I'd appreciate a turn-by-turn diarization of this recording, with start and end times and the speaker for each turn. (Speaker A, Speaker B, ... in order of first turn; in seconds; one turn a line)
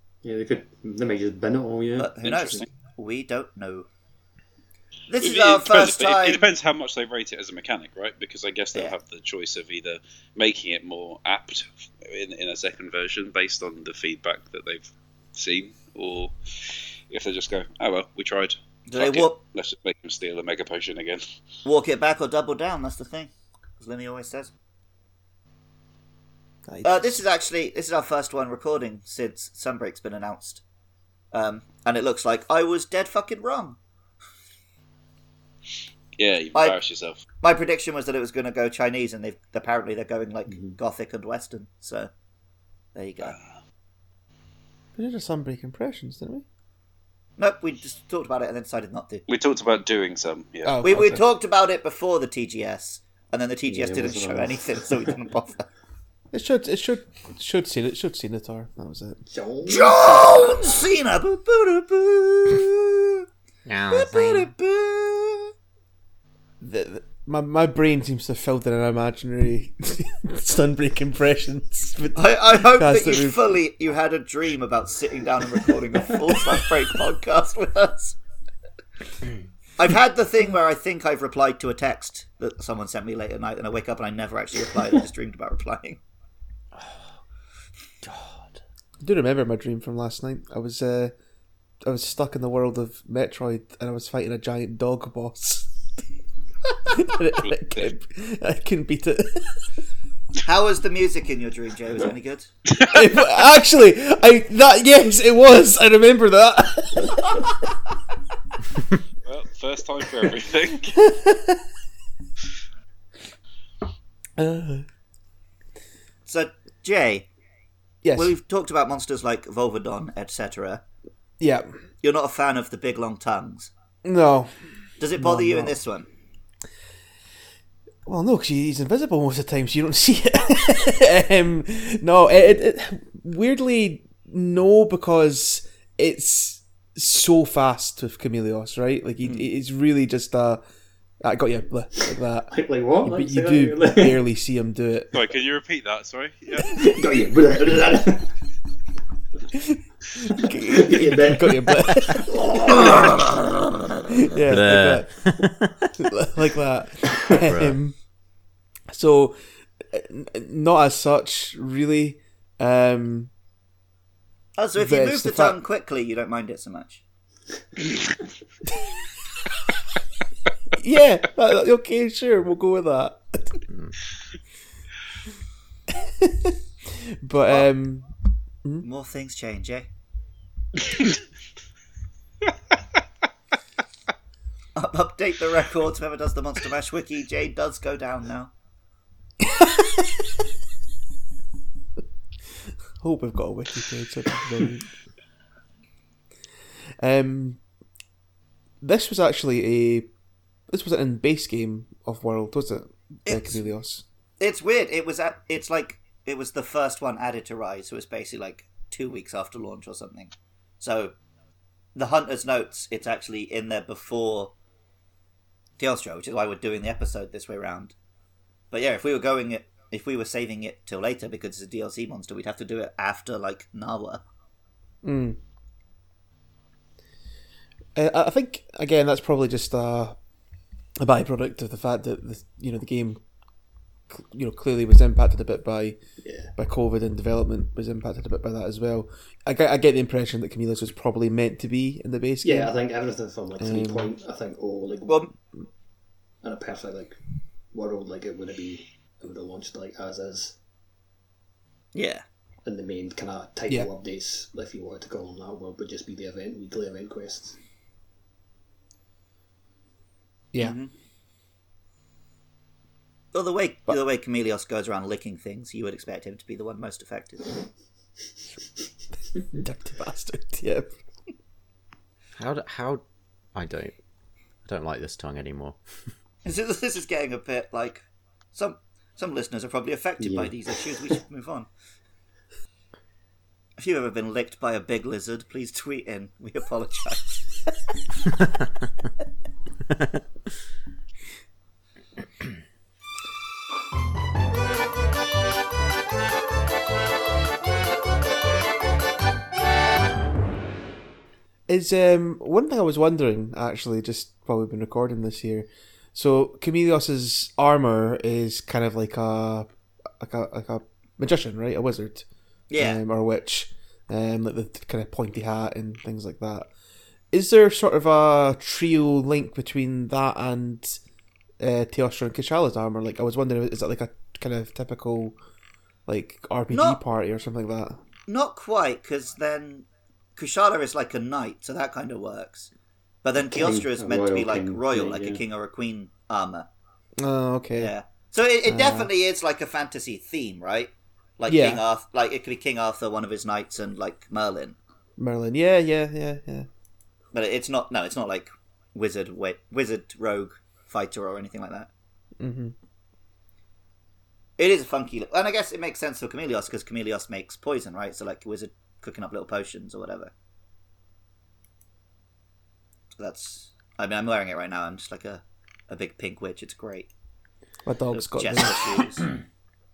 Speaker A: 0.2-2.1
Speaker B: 2.0-3.9
Speaker C: 2.2-2.7
Speaker B: 5.1-6.4
Speaker C: 5.2-21.2
Speaker B: 18.9-19.4
Speaker B: 21.6-24.5
Speaker D: 26.7-27.0
Speaker B: 26.8-30.6
Speaker B: 31.3-33.8
Speaker C: 36.2-37.2
Speaker B: 37.4-42.1
Speaker A: 40.5-40.8
Speaker B: 43.0-43.4
Speaker D: 45.0-46.5
Speaker B: 47.4-49.2
Speaker C: 49.3-50.8
Speaker D: 50.6-51.2
Speaker B: 50.8-55.7
Speaker A: 53.7-55.1
Speaker D: 56.3-59.2
Speaker A: 59.3-60.3
Speaker B: 59.7-63.2
Speaker E: 63.7-64.5
Speaker B: 63.9-65.5
Speaker D: 66.6-73.4
Speaker B: 72.2-78.2
Speaker B: 79.8-86.0
Speaker E: 86.8-87.2
Speaker E: 88.0-88.6
Speaker D: 89.0-91.1
Speaker D: 91.8-95.8
Speaker D: 96.9-99.6
Speaker C: 97.4-97.9
Speaker B: 100.5-102.5
Speaker C: 102.8-103.0
Speaker D: 102.9-107.5
Speaker C: 109.3-111.0
Speaker D: 111.0-111.6
Speaker D: 114.4-114.8
Speaker B: 116.3-117.3
Speaker D: 118.0-118.4
Speaker B: 118.2-120.8
Speaker D: 121.4-121.7
Speaker B: 122.0-123.7
Speaker D: 124.0-124.5
Speaker B: 125.0-126.1
Speaker D: 125.2-125.8
Speaker D: 128.1-140.6
Speaker D: 141.2-145.1
Speaker A: 142.5-144.2
Speaker C: 145.1-146.9
Speaker A: 146.7-148.3
Speaker D: 149.6-152.9
Speaker A: 150.7-153.2
Speaker D: 154.3-155.4
Speaker E: 154.5-155.7
Speaker D: 156.0-158.0
Speaker E: 157.4-157.8
Speaker D: 158.9-159.4
Speaker D: 159.9-163.3
Speaker B: 164.6-167.0
Speaker D: 164.8-165.6
Speaker D: 170.8-173.6
Speaker E: 173.7-173.9
Speaker D: 176.0-176.5
Speaker D: 177.2-178.1
Speaker B: 178.8-179.9
Speaker B: 184.8-188.5
Speaker D: 189.5-190.0
Speaker D: 193.0-194.9
Speaker D: 197.0-197.6
Speaker D: 198.8-200.1
Speaker D: 200.7-204.1
Speaker B: 203.3-203.6
Speaker B: 204.4-211.2
Speaker B: 211.9-214.5
Speaker B: 215.8-217.9
Speaker B: 218.7-224.2
Speaker D: 225.0-225.4
Speaker D: 228.0-230.2
Speaker D: 231.0-233.2
Speaker D: 234.1-236.0
Speaker A: 236.2-236.5
Speaker D: 236.5-242.7
Speaker A: 242.4-245.3
Speaker D: 243.6-244.1
Speaker B: 245.1-245.3
Speaker A: 246.4-247.2
Speaker A: 247.7-250.6
Speaker B: 251.9-252.2
Speaker A: 252.7-257.6
Speaker B: 260.6-260.9
Speaker B: 263.3-267.6
Speaker D: 269.6-270.9
Speaker E: 272.4-273.0
Speaker E: 273.6-273.9
Speaker E: 274.6-276.1
Speaker B: 276.4-281.7
Speaker A: 280.2-280.6
Speaker B: 283.8-287.4
Speaker D: 301.7-312.2
Speaker B: 312.7-313.0
Speaker D: 312.8-316.7
Speaker D: 317.3-321.0
Speaker D: 321.6-325.4
Speaker D: 326.1-328.0
Speaker B: 326.7-327.0
Speaker B: 328.3-332.7
Speaker B: 333.2-336.7
Speaker A: 333.4-335.4
Speaker D: 337.2-337.9
Speaker B: 337.8-344.8
Speaker D: 338.7-339.1
Speaker D: 341.5-341.8
Speaker D: 345.2-346.7
Speaker B: 347.3-351.9
Speaker D: 352.4-352.7
Speaker B: 354.6-360.3
Speaker B: 363.2-367.1
Speaker D: 367.9-369.0
Speaker B: 368.1-369.3